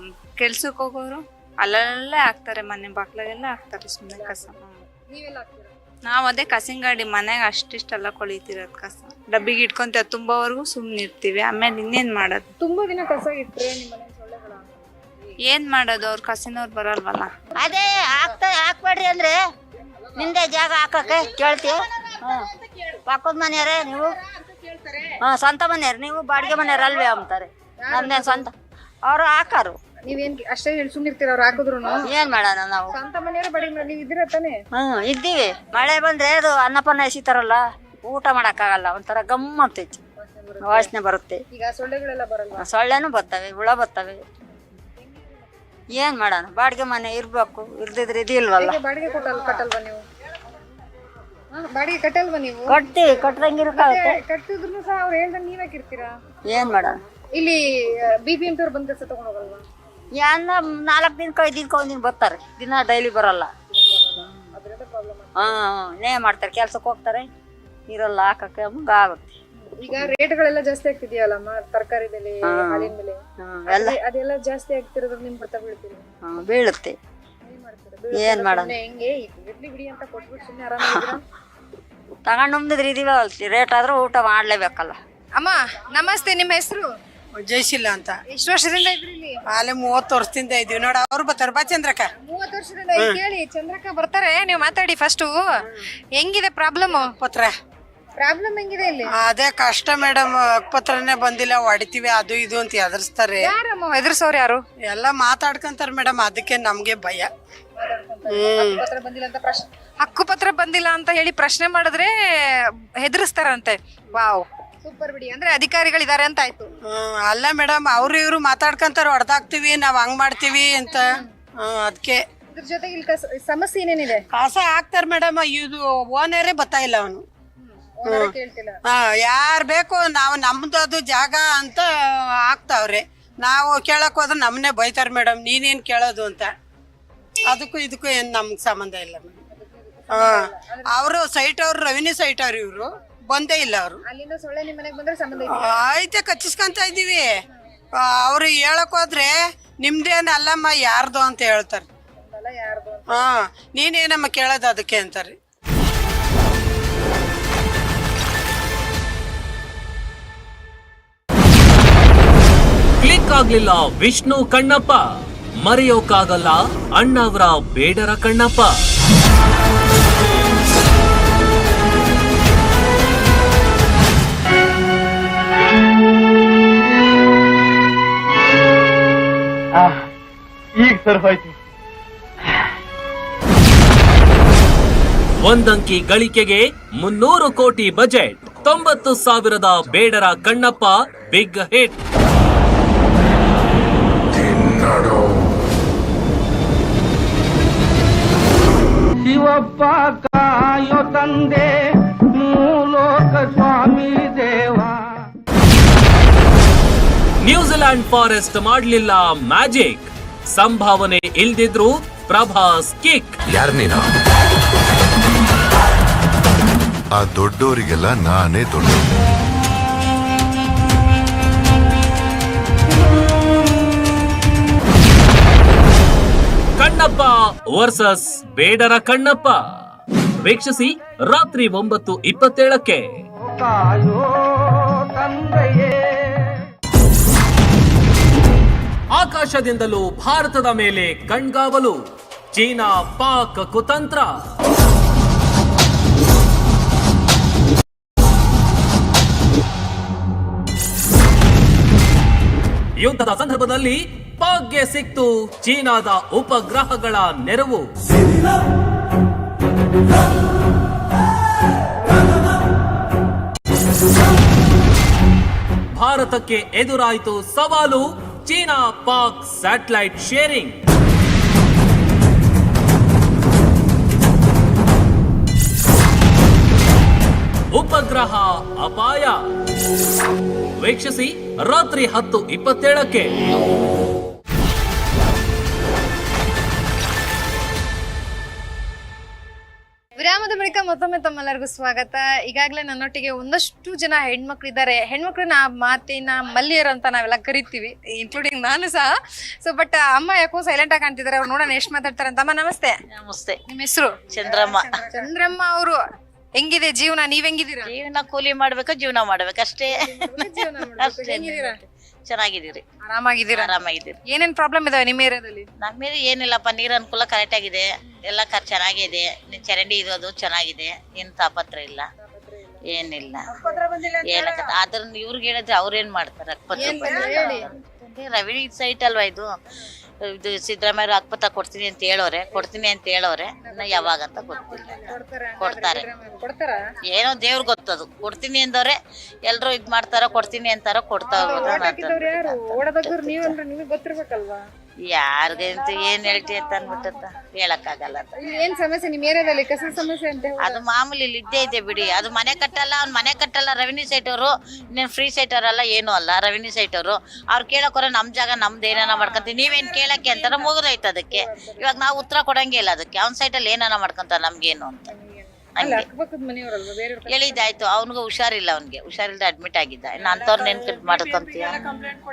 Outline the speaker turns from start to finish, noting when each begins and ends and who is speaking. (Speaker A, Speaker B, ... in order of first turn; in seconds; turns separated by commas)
Speaker A: 0.4-4.8, Speaker B: 4.1-5.8, Speaker A: 6.1-12.5, Speaker B: 12.6-15.3, Speaker A: 15.4-17.3, Speaker C: 17.6-19.4, Speaker B: 17.6-17.9, Speaker C: 20.1-22.4, Speaker C: 23.1-24.2, Speaker C: 25.2-28.5, Speaker B: 27.8-28.4, Speaker C: 29.1-29.8, Speaker B: 30.0-32.1, Speaker C: 32.0-33.0, Speaker B: 32.9-34.6, Speaker C: 34.7-40.0, Speaker B: 40.2-40.9, Speaker C: 40.6-41.4, Speaker B: 41.5-42.6, Speaker C: 42.6-44.2, Speaker B: 45.0-45.8, Speaker C: 45.9-48.8, Speaker B: 48.6-50.0, Speaker B: 51.5-52.8, Speaker C: 52.7-54.2, Speaker B: 53.7-56.1, Speaker C: 56.5-56.9, Speaker B: 57.3-59.7, Speaker C: 60.2-63.5, Speaker B: 63.7-65.5, Speaker C: 64.2-64.5, Speaker C: 65.3-67.3, Speaker C: 67.9-69.4, Speaker B: 69.6-76.1, Speaker C: 72.4-74.0, Speaker C: 76.2-76.9, Speaker B: 77.4-81.2, Speaker C: 78.1-78.7, Speaker C: 82.3-84.9, Speaker B: 85.3-86.9, Speaker D: 87.4-88.2, Speaker B: 88.3-89.4, Speaker D: 89.5-92.1, Speaker B: 92.2-97.2, Speaker D: 97.1-97.5, Speaker B: 98.2-99.1, Speaker D: 99.1-103.5, Speaker B: 103.4-104.6, Speaker D: 104.9-107.3, Speaker B: 107.8-116.7, Speaker D: 108.3-108.8, Speaker D: 116.9-122.2, Speaker B: 120.6-121.3, Speaker B: 122.5-124.2, Speaker D: 124.3-127.2, Speaker B: 127.6-128.8, Speaker D: 128.1-128.3, Speaker D: 128.8-131.9, Speaker D: 132.4-136.5, Speaker D: 137.5-139.4, Speaker B: 139.5-141.1, Speaker D: 140.1-144.0, Speaker B: 144.1-145.8, Speaker D: 145.5-147.3, Speaker D: 147.9-151.8, Speaker B: 152.2-153.3, Speaker D: 153.1-155.3, Speaker E: 163.0-165.1, Speaker E: 165.6-168.8, Speaker E: 185.4-192.0, Speaker F: 194.7-195.0, Speaker G: 199.4-200.3, Speaker G: 200.8-201.6, Speaker G: 202.5-204.7, Speaker E: 207.4-213.4, Speaker F: 213.5-214.1, Speaker F: 217.1-219.1, Speaker E: 226.8-229.6, Speaker E: 230.4-233.1, Speaker E: 239.1-242.0, Speaker E: 242.5-244.4, Speaker E: 253.0-257.8, Speaker E: 265.9-270.8, Speaker E: 277.7-279.4, Speaker E: 280.8-283.3, Speaker B: 290.2-303.0, Speaker H: 303.1-303.6, Speaker B: 303.7-306.0, Speaker H: 304.3-305.1, Speaker B: 306.6-307.9, Speaker H: 307.8-312.8, Speaker B: 309.9-311.8, Speaker B: 313.0-313.7, Speaker H: 313.5-314.2, Speaker B: 314.3-315.7, Speaker H: 315.8-322.1, Speaker B: 322.2-322.9, Speaker H: 322.8-323.5, Speaker H: 324.2-329.5, Speaker B: 326.7-327.7, Speaker H: 330.2-336.1, Speaker B: 333.6-336.8, Speaker H: 337.1-343.6, Speaker B: 341.3-344.6, Speaker H: 345.1-348.4, Speaker B: 348.3-350.8, Speaker H: 350.6-365.1, Speaker B: 359.1-360.7, Speaker B: 361.3-362.1, Speaker B: 365.1-367.7, Speaker H: 365.8-366.1, Speaker H: 367.3-372.0